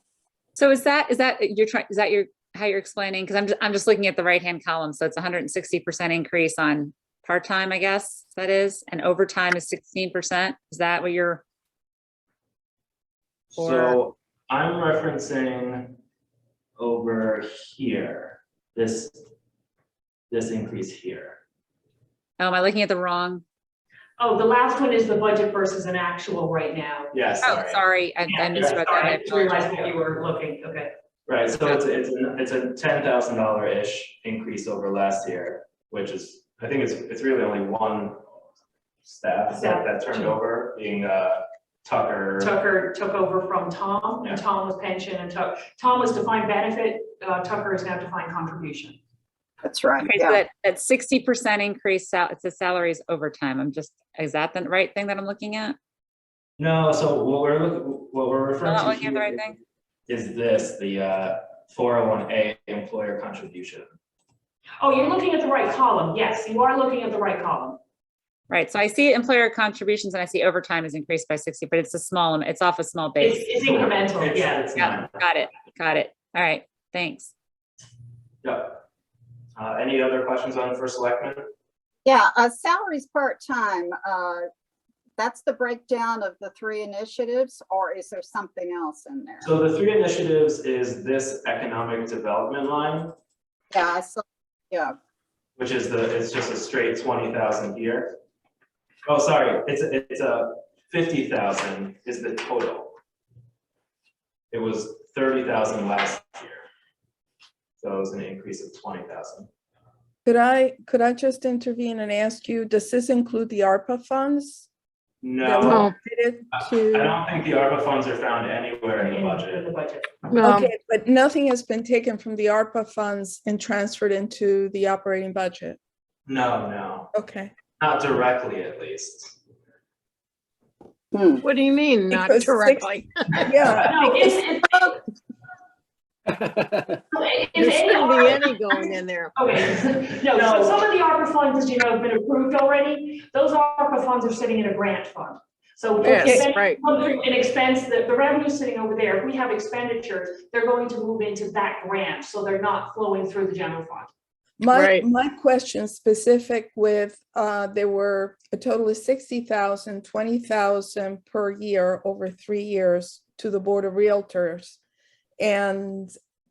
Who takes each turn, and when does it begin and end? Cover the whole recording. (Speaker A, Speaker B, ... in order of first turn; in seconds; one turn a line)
Speaker A: 0.6-11.4
Speaker B: 13.5-16.0
Speaker A: 13.6-14.0
Speaker B: 16.8-19.3
Speaker B: 20.3-21.4
Speaker A: 22.4-23.4
Speaker C: 24.2-27.1
Speaker B: 27.1-27.8
Speaker A: 27.4-29.9
Speaker C: 28.3-30.9
Speaker B: 31.3-38.2
Speaker B: 39.0-42.5
Speaker C: 39.5-40.4
Speaker C: 42.4-49.0
Speaker D: 49.6-50.4
Speaker A: 50.0-55.8
Speaker B: 56.6-59.5
Speaker A: 58.6-59.6
Speaker B: 60.1-63.9
Speaker C: 64.8-67.8
Speaker A: 68.5-73.9
Speaker C: 73.2-74.7
Speaker B: 73.6-75.2
Speaker A: 74.7-77.3
Speaker B: 78.4-78.8
Speaker B: 79.5-81.4
Speaker D: 82.0-84.5
Speaker D: 85.2-89.5
Speaker B: 89.4-93.1
Speaker D: 93.7-95.0
Speaker B: 95.6-98.1
Speaker B: 99.0-103.0
Speaker B: 104.5-106.6
Speaker B: 107.8-109.5
Speaker E: 110.2-114.7
Speaker B: 115.2-115.9
Speaker E: 115.4-117.1
Speaker F: 115.6-115.9
Speaker B: 116.9-119.7
Speaker C: 119.0-120.1
Speaker F: 120.3-120.7
Speaker E: 120.4-125.8
Speaker B: 126.3-127.1
Speaker E: 127.1-127.5
Speaker B: 127.8-129.4
Speaker D: 131.1-131.4
Speaker F: 131.4-133.8
Speaker E: 132.1-134.4
Speaker C: 133.8-134.9
Speaker C: 137.1-154.1
Speaker F: 137.6-139.3
Speaker F: 146.0-146.8
Speaker E: 146.1-146.5
Speaker E: 154.6-164.8
Speaker F: 154.7-155.1
Speaker E: 165.4-166.1